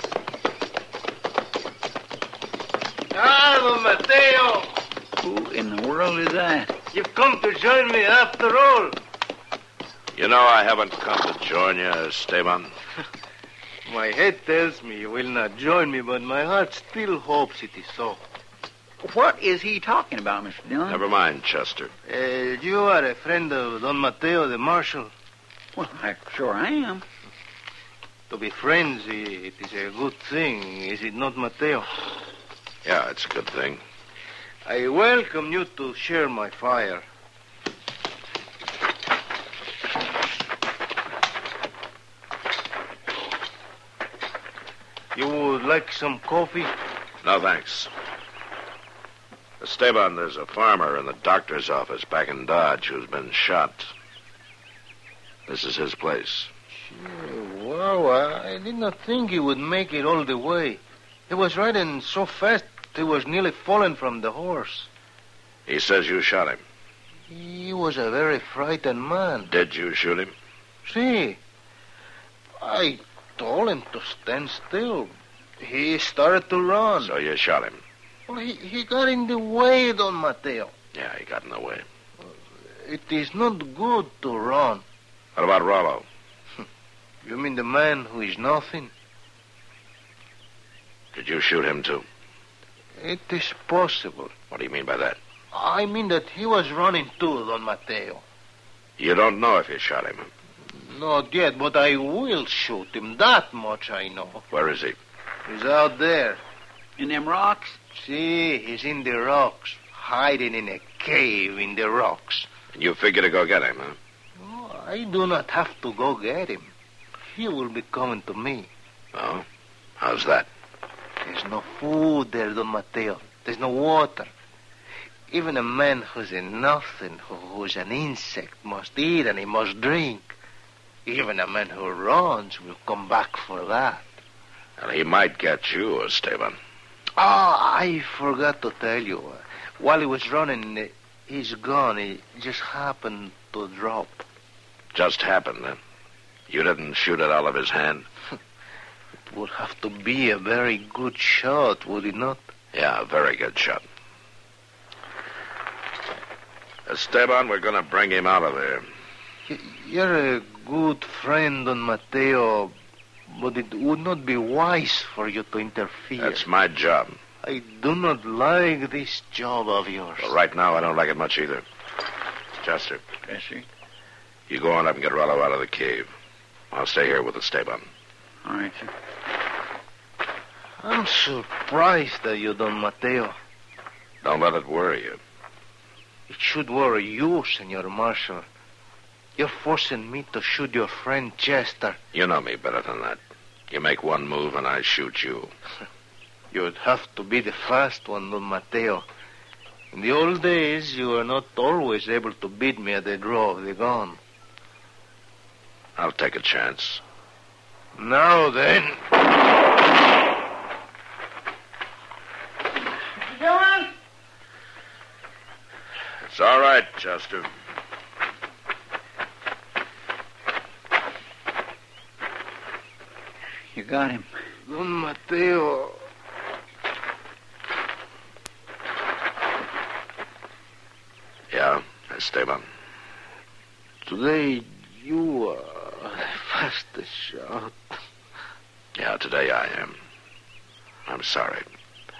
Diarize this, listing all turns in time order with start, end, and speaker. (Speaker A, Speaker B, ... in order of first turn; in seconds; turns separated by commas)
Speaker A: 3.1-4.7, Speaker B: 5.2-6.7, Speaker A: 6.9-9.0, Speaker C: 10.1-12.7, Speaker A: 13.9-18.2, Speaker B: 19.0-21.0, Speaker C: 20.9-21.9, Speaker A: 22.1-25.1, Speaker B: 25.8-27.0, Speaker A: 28.3-31.9, Speaker C: 32.8-33.8, Speaker A: 34.7-37.0, Speaker A: 45.1-46.7, Speaker C: 47.2-47.9, Speaker C: 49.6-53.9, Speaker C: 55.5-56.5, Speaker A: 56.8-64.9, Speaker C: 65.7-66.6, Speaker A: 67.3-69.5, Speaker C: 69.5-70.3, Speaker A: 70.9-71.4, Speaker A: 72.6-77.1, Speaker C: 77.0-77.8, Speaker A: 78.3-80.7, Speaker C: 80.9-81.9, Speaker A: 82.8-84.8, Speaker C: 85.4-86.1, Speaker A: 87.2-88.9, Speaker C: 91.1-92.1, Speaker A: 93.0-94.3, Speaker C: 94.5-95.2, Speaker A: 95.5-98.2, Speaker C: 99.0-100.3, Speaker A: 100.8-104.4, Speaker C: 104.5-105.0, Speaker A: 105.5-106.4, Speaker B: 107.0-107.8, Speaker A: 107.9-112.5, Speaker C: 112.7-114.0, Speaker A: 114.4-116.7, Speaker A: 117.3-118.7, Speaker C: 119.1-119.5, Speaker C: 120.0-120.5, Speaker A: 121.2-124.3, Speaker A: 125.3-130.3, Speaker A: 131.1-134.0, Speaker C: 134.8-136.6, Speaker A: 137.2-144.2, Speaker C: 144.9-145.8, Speaker C: 146.5-148.1, Speaker A: 149.3-152.5, Speaker C: 152.7-153.8, Speaker C: 156.9-158.8, Speaker A: 159.5-162.7, Speaker A: 163.3-166.4, Speaker C: 166.2-167.2, Speaker A: 167.4-170.3, Speaker C: 170.2-171.7, Speaker C: 172.6-173.0, Speaker B: 173.2-173.7, Speaker C: 174.5-176.1, Speaker C: 176.7-177.9, Speaker B: 178.4-178.9, Speaker A: 180.8-183.3, Speaker C: 184.2-185.2, Speaker A: 186.3-188.4, Speaker A: 189.4-192.0, Speaker C: 192.1-195.5, Speaker A: 196.5-199.0, Speaker A: 199.9-204.2, Speaker C: 206.0-207.0, Speaker A: 208.0-209.1, Speaker C: 216.2-217.5, Speaker B: 223.7-224.3, Speaker A: 224.7-226.0, Speaker C: 231.5-232.7, Speaker A: 234.1-238.0, Speaker C: 239.0-240.0, Speaker C: 241.1-241.7